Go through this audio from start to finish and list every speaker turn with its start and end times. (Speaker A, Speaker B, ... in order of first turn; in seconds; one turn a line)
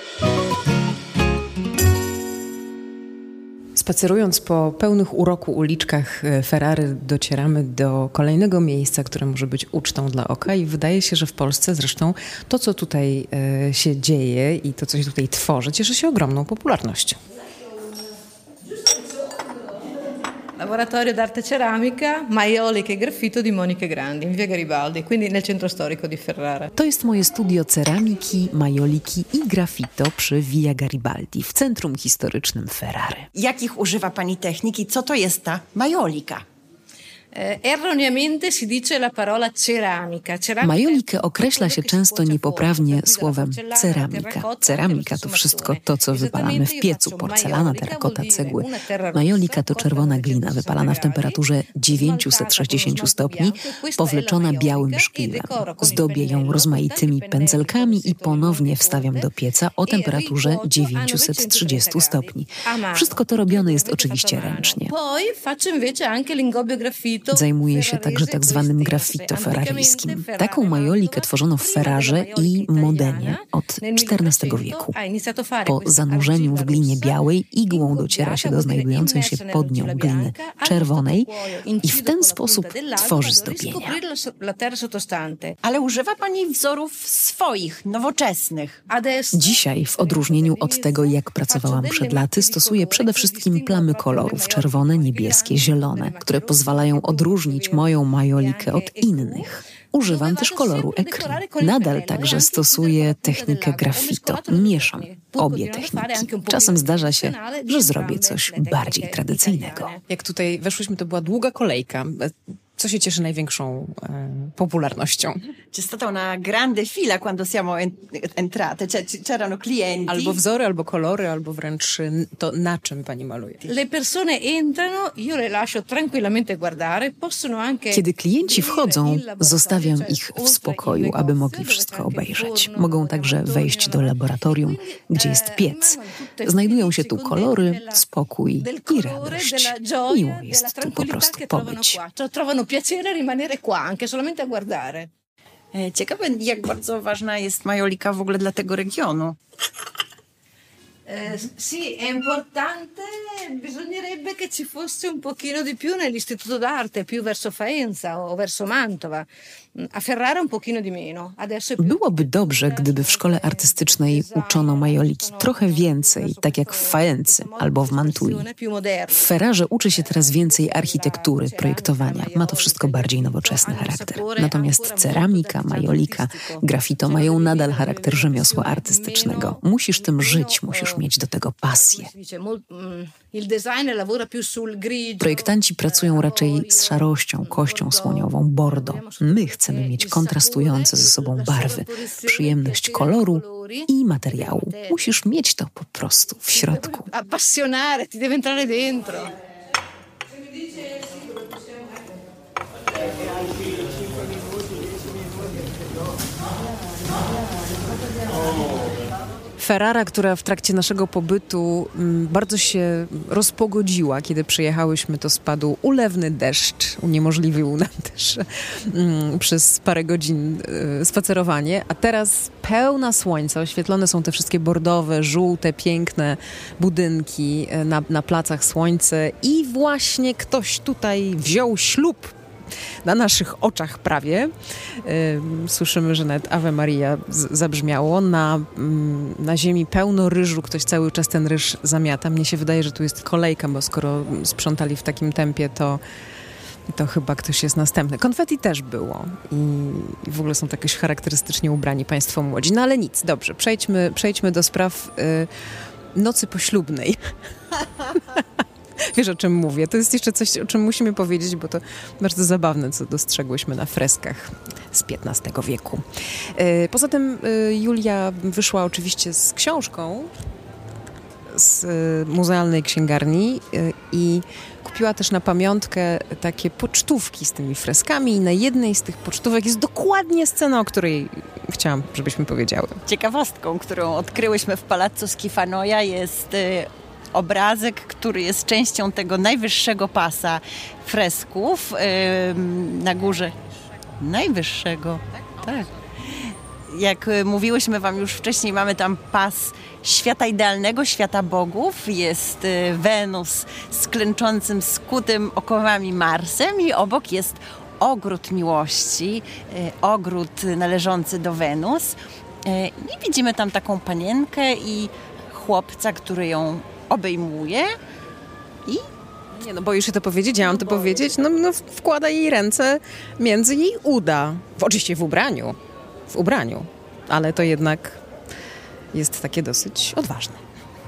Speaker A: 3.7-17.2
Speaker B: 20.6-26.7
Speaker C: 26.8-33.3
Speaker D: 33.3-36.4
Speaker B: 37.3-85.5
Speaker C: 40.6-64.9
Speaker C: 67.3-75.0
Speaker C: 75.6-84.0
Speaker D: 85.6-88.8
Speaker B: 88.9-110.0
Speaker C: 89.3-109.9
Speaker A: 110.1-115.4
Speaker D: 115.7-120.4
Speaker A: 120.1-123.6
Speaker B: 123.6-145.1
Speaker C: 127.9-142.0
Speaker D: 145.7-149.4
Speaker B: 151.1-181.1
Speaker C: 161.8-168.5
Speaker C: 169.1-182.1
Speaker B: 181.6-195.1
Speaker C: 185.2-197.1
Speaker B: 196.5-199.3
Speaker A: 209.6-232.3
Speaker A: 233.0-246.0
Speaker A: 246.9-255.5
Speaker A: 256.1-257.3
Speaker A: 259.0-270.3
Speaker A: 271.5-283.0
Speaker D: 283.1-293.6
Speaker D: 294.2-317.9
Speaker A: 318.9-325.8
Speaker A: 326.3-328.2
Speaker A: 329.1-330.6